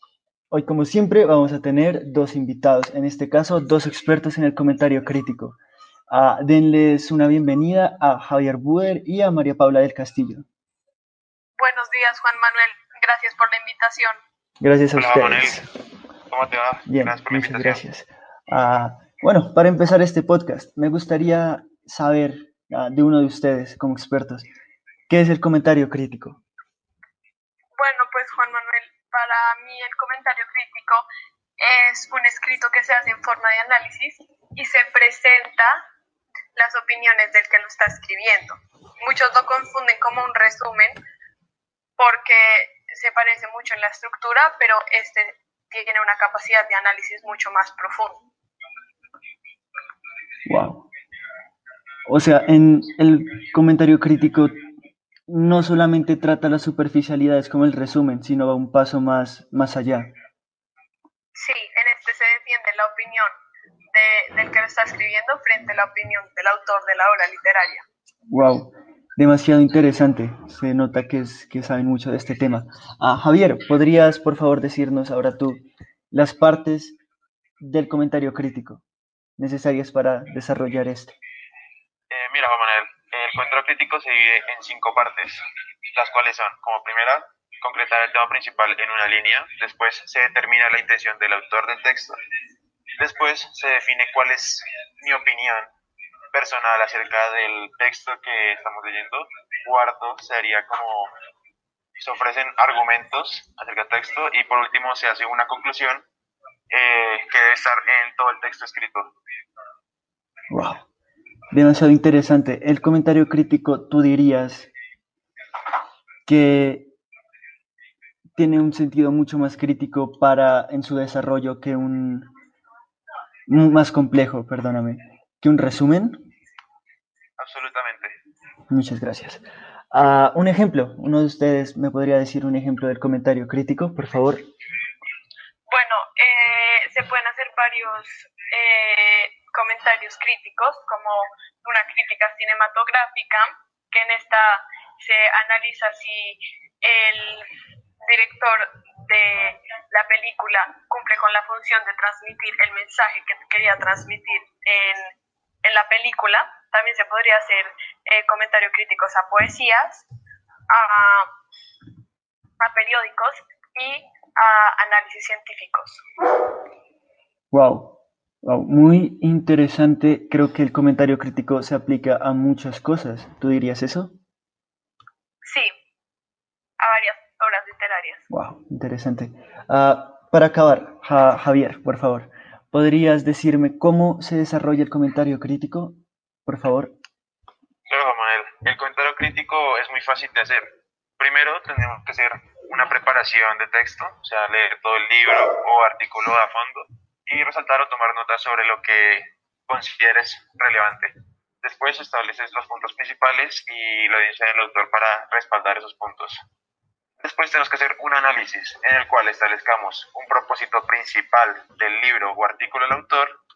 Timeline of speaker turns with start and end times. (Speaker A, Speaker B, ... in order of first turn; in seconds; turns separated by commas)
Speaker A: 0.5-5.6, Speaker A: 6.1-10.4, Speaker B: 11.6-14.2, Speaker A: 14.6-15.7, Speaker C: 14.9-15.6, Speaker C: 16.3-17.8, Speaker A: 16.9-24.4, Speaker A: 25.1-26.4, Speaker B: 27.8-31.0, Speaker B: 31.6-35.8, Speaker B: 36.5-41.0, Speaker B: 42.0-48.2, Speaker A: 50.5-50.9, Speaker A: 52.1-54.5, Speaker A: 55.3-60.1, Speaker B: 61.3-63.3, Speaker B: 63.9-67.8, Speaker A: 68.3-77.0, Speaker A: 77.6-78.8, Speaker A: 79.4-81.2, Speaker C: 82.1-92.2, Speaker C: 93.0-95.7, Speaker C: 96.3-101.1, Speaker C: 102.0-106.0, Speaker C: 106.7-109.1, Speaker A: 110.5-110.8, Speaker A: 111.5-114.7, Speaker A: 116.2-116.9, Speaker A: 118.3-122.3, Speaker A: 123.5-126.2, Speaker C: 127.4-128.2, Speaker A: 128.7-134.4, Speaker B: 135.7-147.5, Speaker B: 148.1-155.1, Speaker B: 155.6-160.0, Speaker B: 160.7-161.3, Speaker B: 162.6-166.0, Speaker A: 167.5-174.1, Speaker B: 175.4-175.7, Speaker B: 176.8-178.2, Speaker A: 178.3-186.9, Speaker C: 187.9-206.4, Speaker C: 207.2-213.3